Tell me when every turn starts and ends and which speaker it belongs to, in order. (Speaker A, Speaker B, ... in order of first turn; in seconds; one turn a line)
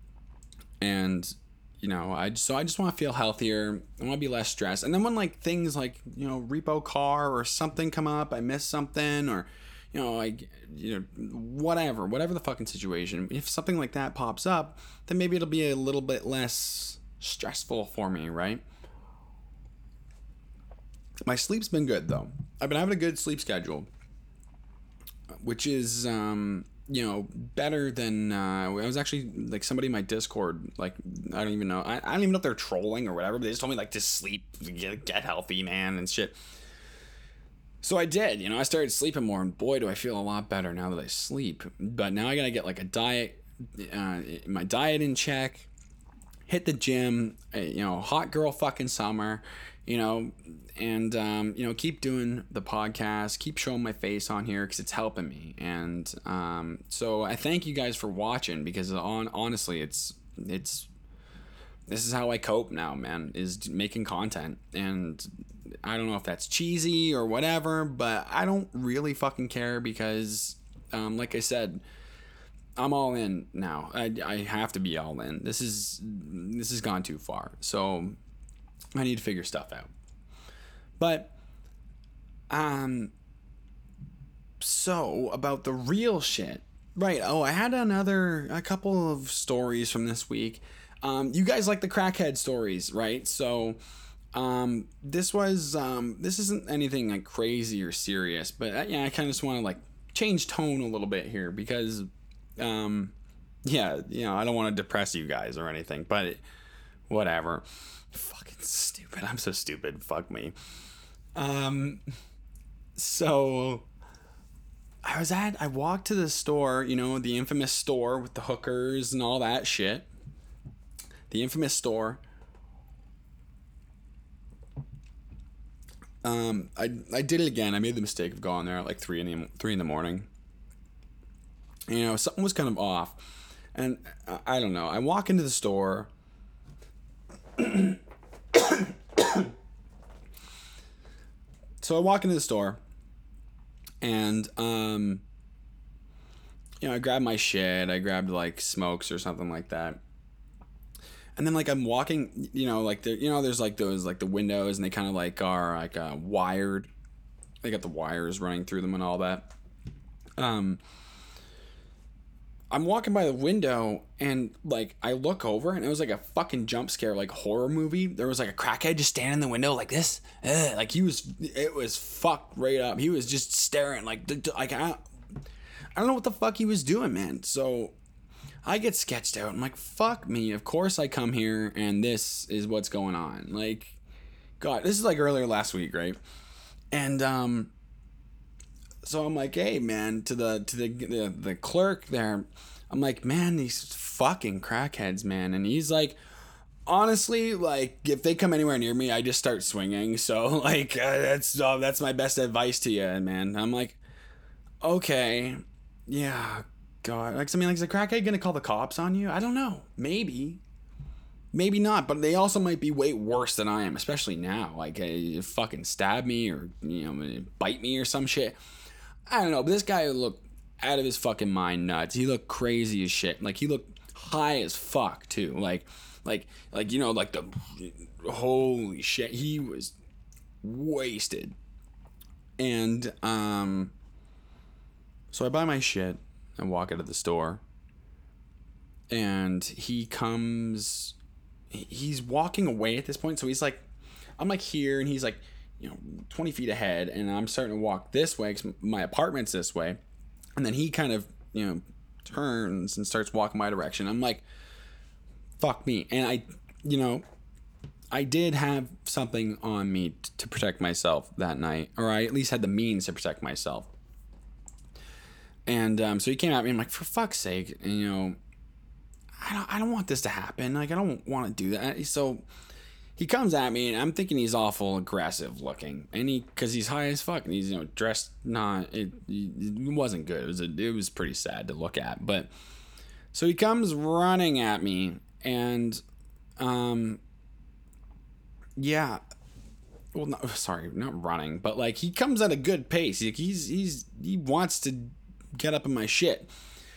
Speaker A: 0.8-18.6
Speaker A: 21.3-23.9
Speaker A: 25.4-36.4
Speaker A: 37.8-45.7
Speaker A: 46.5-60.9
Speaker A: 61.9-65.3
Speaker A: 65.8-71.8
Speaker A: 72.8-78.2
Speaker A: 78.9-79.9
Speaker A: 81.0-81.3
Speaker A: 82.5-83.1
Speaker A: 84.6-93.8
Speaker A: 94.3-102.1
Speaker A: 102.6-103.1
Speaker A: 103.7-106.4
Speaker A: 107.1-110.5
Speaker A: 111.4-112.0
Speaker A: 113.0-113.9
Speaker A: 115.0-120.1
Speaker A: 121.3-122.2
Speaker A: 126.2-130.3
Speaker A: 131.9-136.1
Speaker A: 137.6-138.0
Speaker A: 138.5-139.5
Speaker A: 141.8-142.8
Speaker A: 144.0-145.2
Speaker A: 146.8-150.0
Speaker A: 151.4-156.9
Speaker A: 157.6-159.5
Speaker A: 160.4-160.8
Speaker A: 162.7-175.0
Speaker A: 175.9-177.9
Speaker A: 178.6-184.0
Speaker A: 184.6-186.2
Speaker A: 186.9-187.7
Speaker A: 189.0-196.2
Speaker A: 196.9-204.0
Speaker A: 204.8-210.6
Speaker A: 211.5-218.6
Speaker A: 219.3-229.9
Speaker A: 230.6-231.6
Speaker A: 232.6-233.9
Speaker A: 235.3-237.6
Speaker A: 239.1-241.1
Speaker A: 241.7-243.9
Speaker A: 244.4-250.0
Speaker A: 250.6-254.4
Speaker A: 255.6-257.2
Speaker A: 258.1-263.9
Speaker A: 265.7-268.4
Speaker A: 269.4-272.4
Speaker A: 273.2-282.5
Speaker A: 283.3-286.0
Speaker A: 286.6-287.2
Speaker A: 288.8-289.2
Speaker A: 290.1-296.5